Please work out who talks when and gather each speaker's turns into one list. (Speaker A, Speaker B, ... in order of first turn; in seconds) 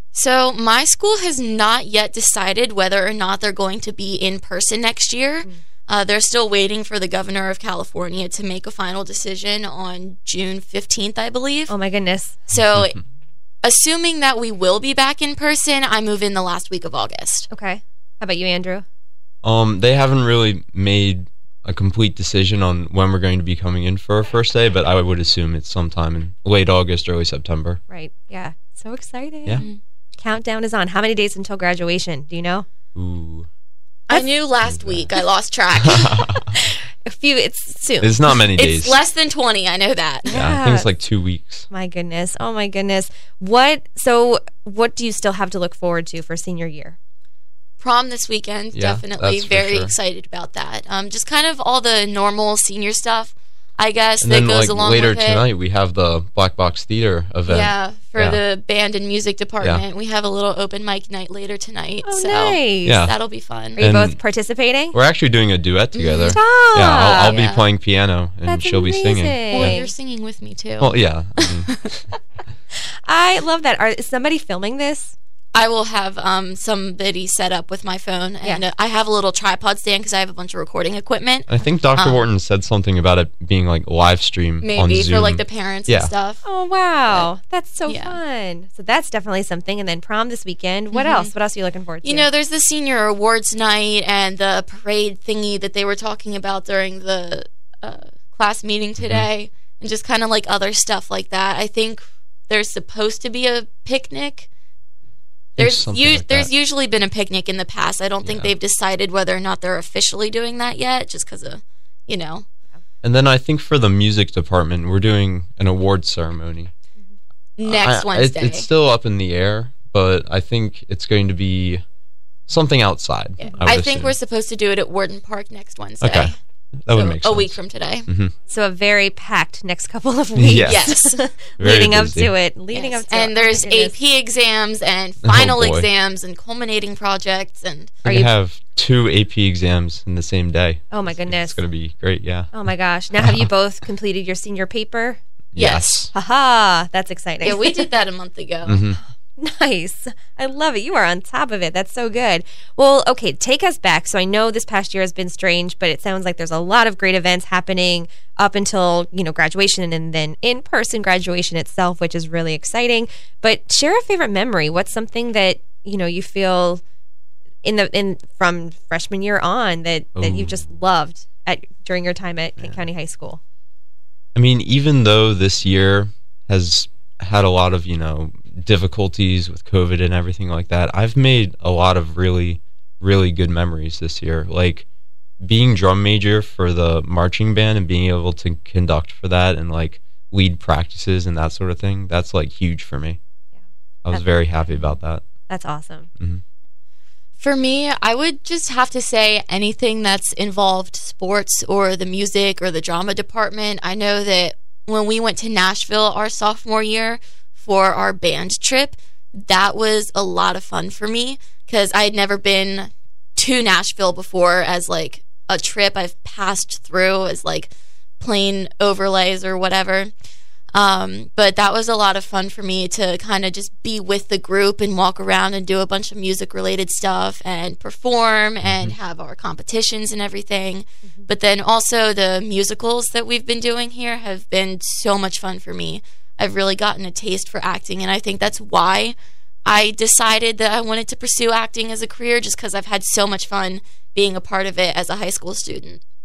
Speaker A: 0.1-11.7, 12.5-13.0, 13.6-17.5, 34.1-36.4, 38.6-40.4, 47.8-55.5, 57.5-63.8, 66.0-66.4, 67.2-67.7, 69.5-71.9, 75.5-82.2, 84.6-86.4, 87.9-88.2, 90.9-91.3, 92.0-104.5, 105.6-112.5, 117.6-118.7, 123.4-126.4, 126.9-128.1, 130.5-131.2, 132.7-138.1, 145.6-145.9, 147.4-148.8, 197.4-220.1, 220.7-239.2, 239.7-246.0
Speaker B: 11.7-12.6, 17.5-18.9, 27.9-29.7, 30.2-32.7, 36.5-38.4, 40.3-40.9, 41.7-47.0, 62.0-63.0, 63.8-65.0, 66.3-67.4, 68.5-69.9, 72.7-75.1, 86.4-92.3, 123.5-123.7, 128.5-133.9, 140.9-141.6, 142.5-145.2, 146.1-147.9, 149.4-166.8, 167.6-173.4, 195.5-196.1
Speaker C: 19.4-27.8, 33.0-33.5, 34.7-35.1, 35.8-36.6, 38.0-39.0, 40.3-41.7, 48.7-49.9, 54.2-58.4, 62.9-63.2, 63.8-64.2, 64.9-69.8, 70.8-72.0, 81.5-86.1, 99.0-99.3, 105.6-106.5, 108.2-108.5, 113.0-116.7, 117.7-121.8, 122.5-124.2, 126.0-128.3, 130.4-130.9, 131.6-132.3, 135.2-135.9, 138.1-142.5, 143.2-143.5, 145.5-146.1, 148.7-149.0, 170.2-170.7, 174.3-184.9, 185.4-193.2, 194.1-195.2, 196.2-196.4, 228.6-228.9